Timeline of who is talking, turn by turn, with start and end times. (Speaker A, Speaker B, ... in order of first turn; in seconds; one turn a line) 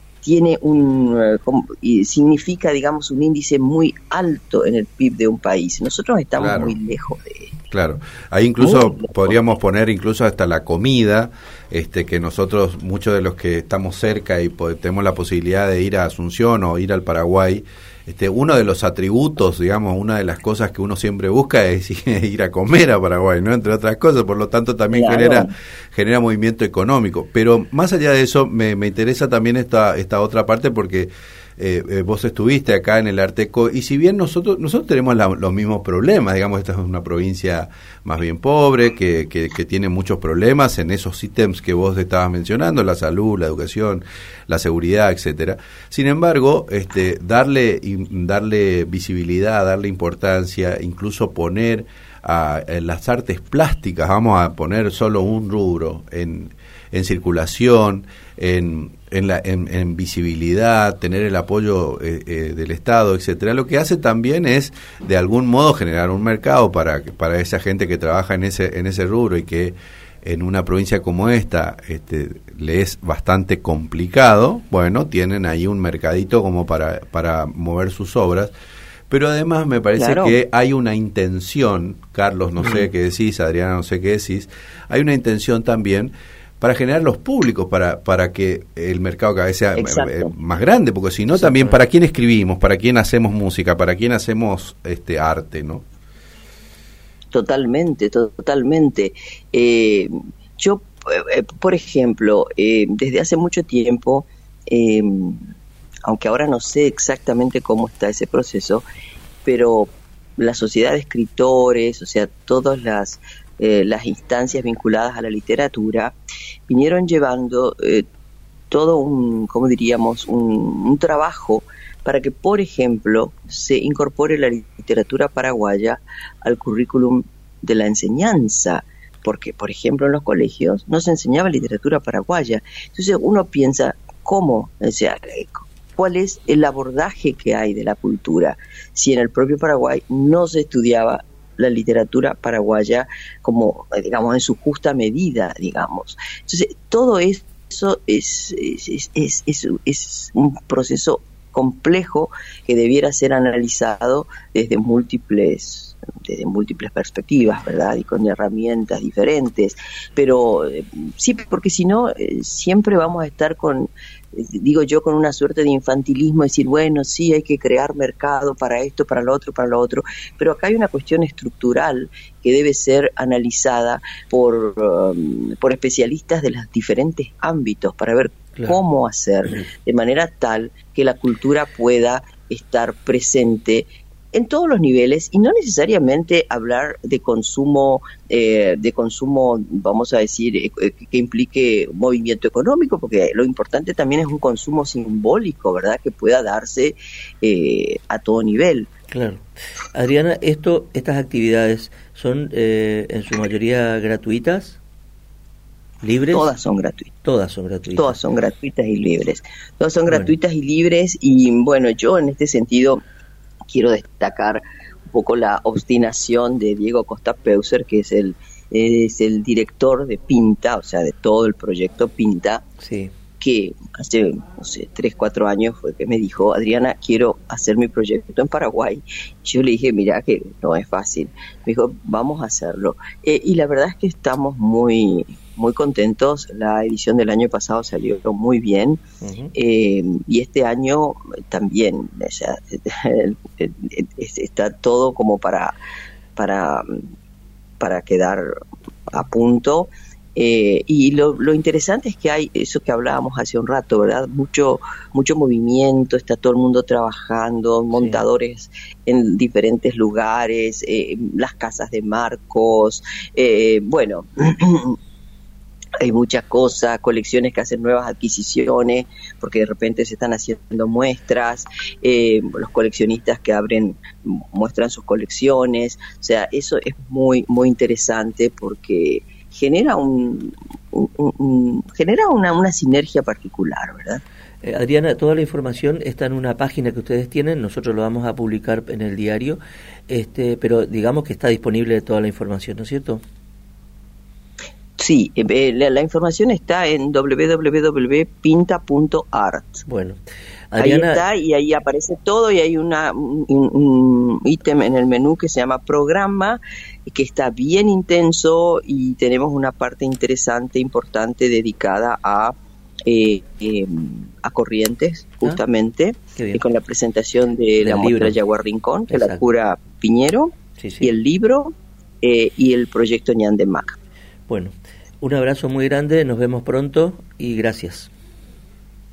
Speaker A: 0.2-7.5
Speaker B: 6.4-6.8
Speaker B: 7.7-78.5
Speaker A: 8.6-9.4
Speaker A: 24.9-25.5
Speaker B: 79.1-95.8
Speaker A: 80.0-80.4
Speaker C: 82.6-82.9
Speaker A: 89.8-90.3
Speaker C: 91.3-91.8
Speaker A: 97.3-105.4
Speaker A: 106.1-108.8
Speaker A: 109.4-116.2
Speaker A: 116.7-118.0
Speaker A: 118.7-198.9
Speaker C: 199.1-204.8
Speaker C: 206.0-206.5
Speaker A: 206.3-207.1
Speaker C: 207.2-208.2
Speaker A: 207.9-213.0
Speaker A: 213.7-222.6
Speaker C: 222.8-223.1
Speaker A: 223.4-239.0
Speaker C: 239.2-239.5
Speaker A: 239.5-245.8
Speaker A: 246.3-246.8
Speaker A: 247.8-248.5
Speaker A: 249.1-265.0
Speaker C: 257.9-258.2
Speaker A: 266.0-284.2
Speaker C: 284.6-293.2
Speaker A: 295.0-299.8
Speaker C: 299.8-300.2
Speaker C: 300.7-301.2
Speaker A: 300.8-312.5
Speaker A: 313.1-323.9
Speaker C: 316.4-316.6
Speaker C: 317.8-318.4
Speaker C: 319.1-319.4
Speaker C: 320.8-321.1
Speaker C: 324.5-328.1